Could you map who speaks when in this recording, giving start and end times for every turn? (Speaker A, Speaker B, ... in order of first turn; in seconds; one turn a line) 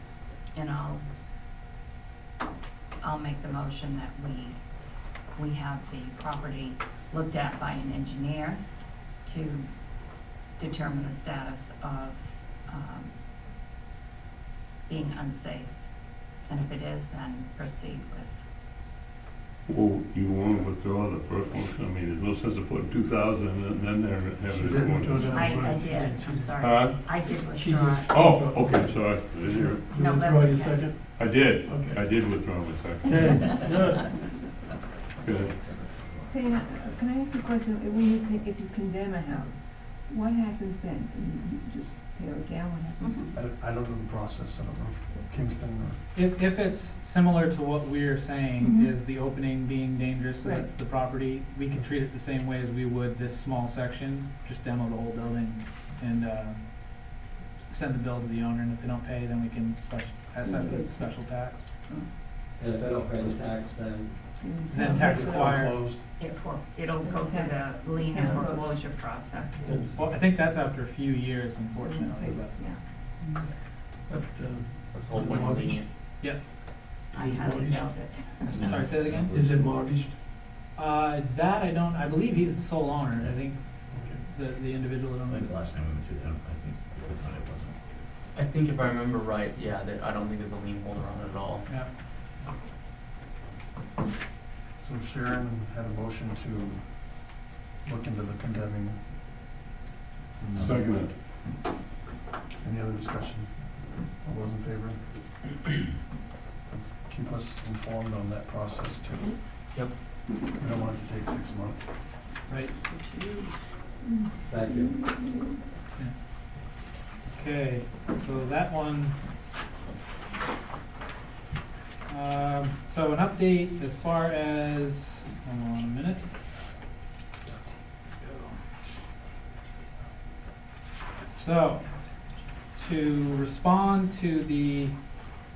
Speaker A: 0.5-1.0
Speaker A: 3.0-4.6
Speaker A: 5.3-8.6
Speaker A: 9.2-9.7
Speaker A: 10.6-13.1
Speaker A: 14.9-15.7
Speaker A: 16.5-18.3
Speaker B: 19.7-25.3
Speaker C: 24.5-24.9
Speaker D: 24.8-26.6
Speaker A: 25.2-28.2
Speaker B: 26.6-27.1
Speaker D: 27.4-32.1
Speaker B: 28.1-29.9
Speaker A: 29.9-30.9
Speaker B: 31.1-33.4
Speaker D: 33.0-34.1
Speaker B: 35.2-35.6
Speaker E: 35.6-36.2
Speaker F: 36.3-43.3
Speaker A: 43.0-43.3
Speaker C: 43.3-46.0
Speaker G: 46.1-57.1
Speaker F: 48.6-48.9
Speaker G: 57.6-61.6
Speaker F: 60.4-61.0
Speaker H: 62.6-64.3
Speaker F: 64.4-65.5
Speaker G: 64.7-65.8
Speaker C: 64.9-66.0
Speaker A: 66.2-69.7
Speaker F: 67.0-69.7
Speaker D: 69.6-70.1
Speaker G: 69.9-72.7
Speaker F: 71.8-72.8
Speaker D: 74.3-75.8
Speaker I: 74.9-75.9
Speaker G: 76.2-76.5
Speaker A: 77.1-78.7
Speaker D: 77.1-77.9
Speaker G: 78.4-79.3
Speaker E: 78.5-79.5
Speaker D: 79.3-80.2
Speaker G: 80.7-85.5
Speaker D: 83.9-84.2
Speaker E: 85.3-87.8
Speaker I: 88.3-91.7
Speaker C: 94.8-99.0
Speaker C: 100.4-101.1
Speaker B: 100.6-101.1
Speaker C: 102.6-105.0
Speaker C: 106.7-109.4
Speaker C: 110.5-111.9
Speaker I: 112.9-113.4
Speaker H: 114.5-115.0
Speaker F: 114.9-115.5
Speaker G: 117.3-119.1
Speaker G: 122.1-126.3
Speaker G: 131.3-131.8
Speaker G: 132.7-134.9